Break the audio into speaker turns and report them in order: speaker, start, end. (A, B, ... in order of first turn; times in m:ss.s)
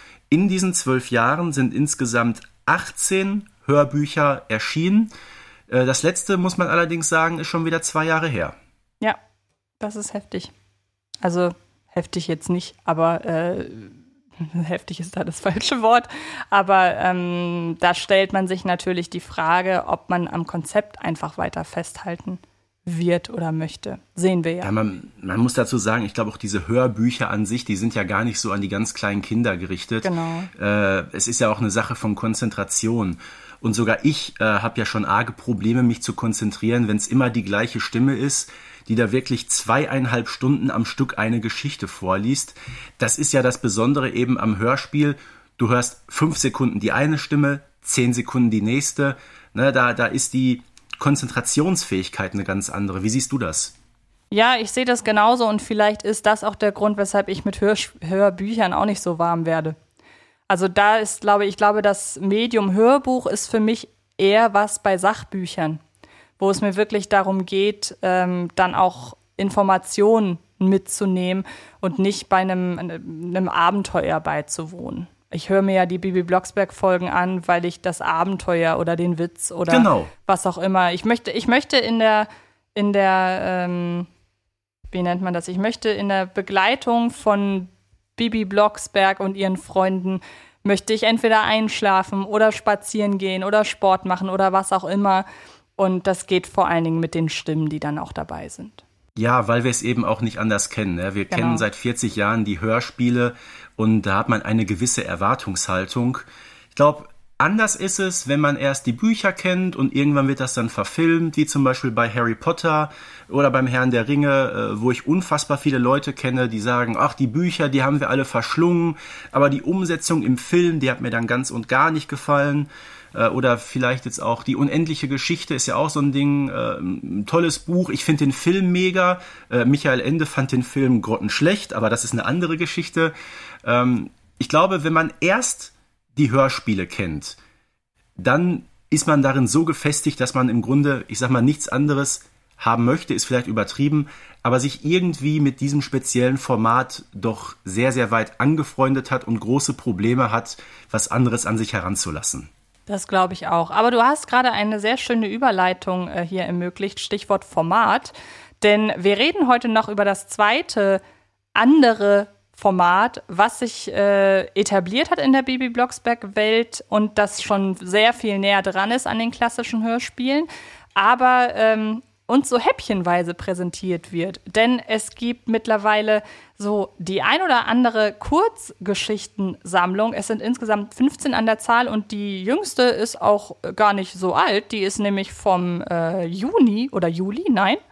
0:00.3-0:05.1 A
0:05.7-0:08.6 A
0:09.8-0:10.5 B
0:11.2-0:24.7 B
0:24.6-0:53.7 A
0:30.0-0:30.5 B
0:54.3-0:59.8 B
1:00.5-1:05.8 B
1:06.4-1:24.1 B
1:19.7-1:20.1 A
1:24.9-1:35.3 B
1:35.8-1:38.8 B
1:39.2-2:13.1 A
1:41.3-1:41.6 B
2:13.6-2:17.4 A
2:18.2-2:32.5 A
2:32.9-2:41.0 B
2:41.6-3:07.8 B